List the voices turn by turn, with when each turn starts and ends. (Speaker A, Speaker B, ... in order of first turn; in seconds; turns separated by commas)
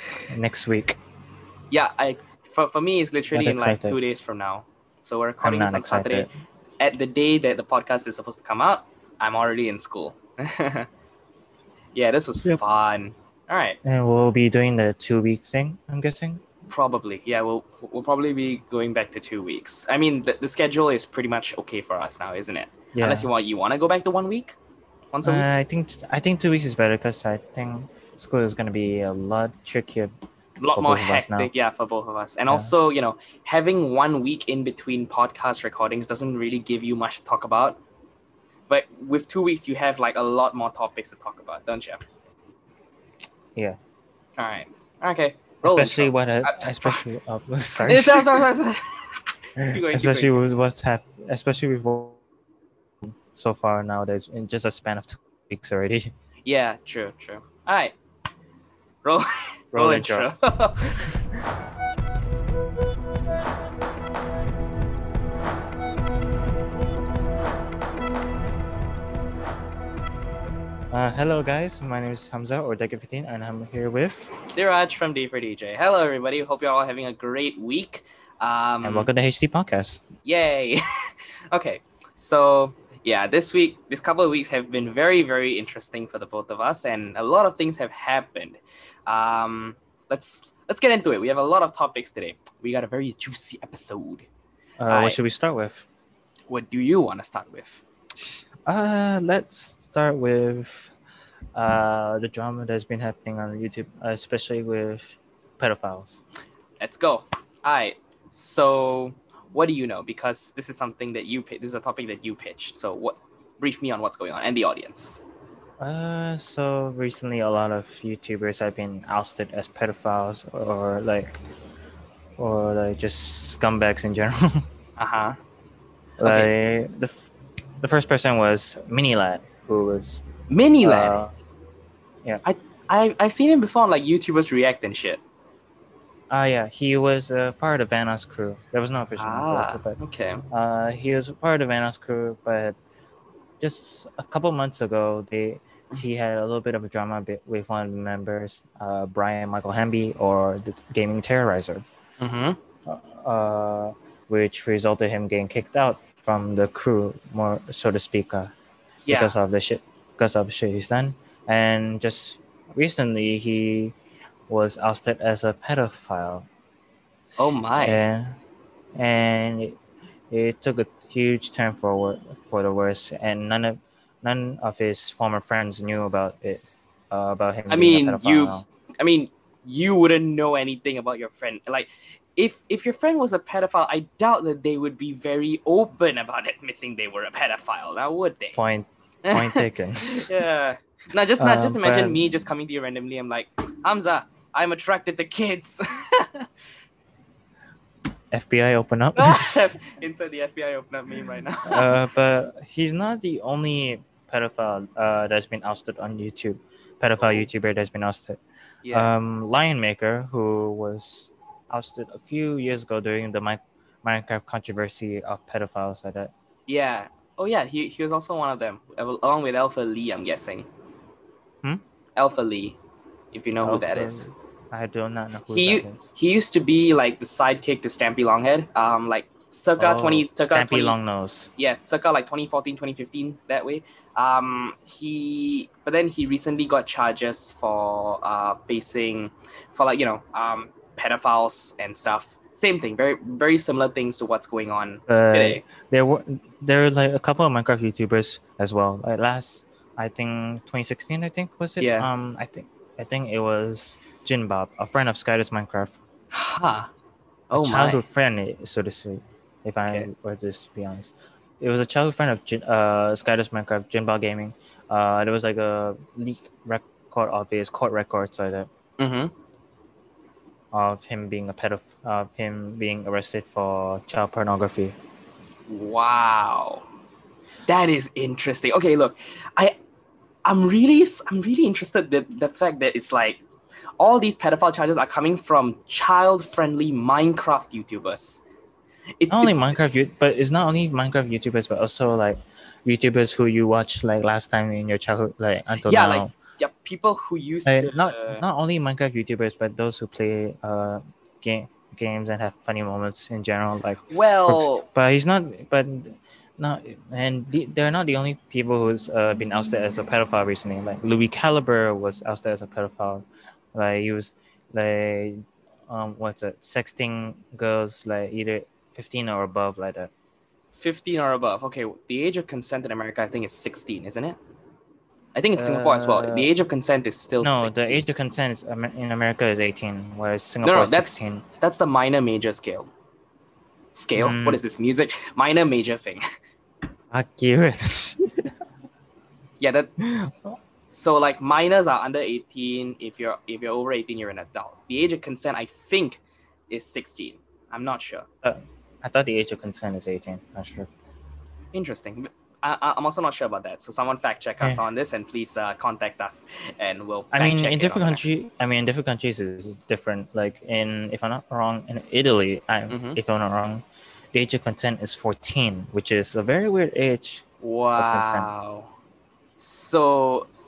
Speaker A: 0.3-1.0, Speaker B: 1.7-6.3, Speaker A: 3.3-4.0, Speaker A: 5.4-6.3, Speaker B: 6.8-10.9, Speaker B: 11.9-13.8, Speaker A: 13.8-16.4, Speaker B: 16.7-24.6, Speaker A: 22.9-23.3, Speaker B: 25.1-25.5, Speaker A: 25.2-30.1, Speaker B: 30.6-37.8, Speaker A: 30.7-31.5, Speaker B: 38.7-42.0, Speaker B: 44.4-47.0, Speaker A: 45.6-48.5, Speaker B: 47.8-50.4, Speaker A: 49.6-52.2, Speaker A: 53.0-56.1, Speaker B: 56.4-57.9, Speaker B: 59.0-61.2, Speaker A: 59.7-60.3, Speaker A: 70.9-74.3, Speaker B: 74.5-79.1, Speaker A: 78.8-80.0, Speaker B: 80.2-94.3, Speaker A: 94.8-95.9, Speaker B: 94.9-95.2, Speaker B: 96.5-97.8, Speaker A: 98.7-100.9, Speaker A: 101.5-106.2, Speaker B: 106.8-115.2, Speaker A: 115.8-121.3, Speaker A: 122.4-124.7, Speaker B: 125.0-125.4, Speaker A: 126.2-127.3, Speaker B: 126.2-126.5, Speaker A: 127.8-130.2, Speaker B: 130.5-131.2, Speaker A: 130.8-131.3, Speaker B: 132.4-135.2, Speaker A: 136.3-140.0, Speaker B: 139.2-140.4, Speaker A: 140.5-142.8, Speaker A: 143.6-151.8, Speaker B: 152.2-152.6, Speaker A: 152.8-158.5, Speaker B: 159.1-159.3, Speaker A: 159.1-163.9, Speaker A: 164.5-166.5, Speaker B: 167.4-168.0, Speaker A: 167.8-168.4, Speaker A: 168.9-169.8, Speaker A: 170.3-178.6, Speaker B: 177.7-188.6, Speaker A: 188.5-190.3, Speaker B: 189.2-196.5, Speaker A: 191.4-192.2, Speaker A: 198.3-199.6, Speaker B: 199.2-201.9, Speaker A: 201.7-216.3, Speaker B: 207.2-207.5, Speaker B: 208.8-209.1, Speaker B: 216.7-220.7, Speaker B: 222.2-222.8, Speaker B: 223.3-224.3, Speaker A: 223.6-226.1, Speaker B: 225.5-230.9, Speaker A: 229.8-231.5, Speaker B: 231.6-245.6, Speaker A: 245.1-256.0, Speaker B: 251.8-252.1, Speaker B: 256.3-256.9, Speaker B: 257.5-258.0, Speaker A: 257.5-268.7, Speaker B: 269.0-269.3, Speaker A: 270.7-274.9, Speaker B: 275.7-276.9, Speaker B: 277.7-279.8, Speaker B: 280.4-283.4, Speaker B: 284.0-288.4, Speaker B: 289.2-289.8, Speaker A: 289.3-296.3, Speaker B: 295.8-298.4, Speaker A: 297.6-320.1, Speaker B: 304.1-304.9, Speaker B: 320.7-324.4, Speaker B: 325.3-328.0, Speaker A: 325.6-326.5, Speaker A: 327.4-331.4, Speaker B: 330.6-332.9, Speaker B: 333.9-336.2, Speaker A: 334.1-334.6, Speaker A: 337.1-338.5, Speaker B: 339.6-339.9, Speaker A: 340.0-340.5, Speaker B: 340.9-348.2, Speaker A: 348.4-350.9, Speaker B: 351.7-358.2, Speaker A: 357.3-367.4, Speaker B: 362.9-363.2, Speaker B: 367.6-368.9, Speaker A: 367.9-368.5, Speaker B: 369.6-370.5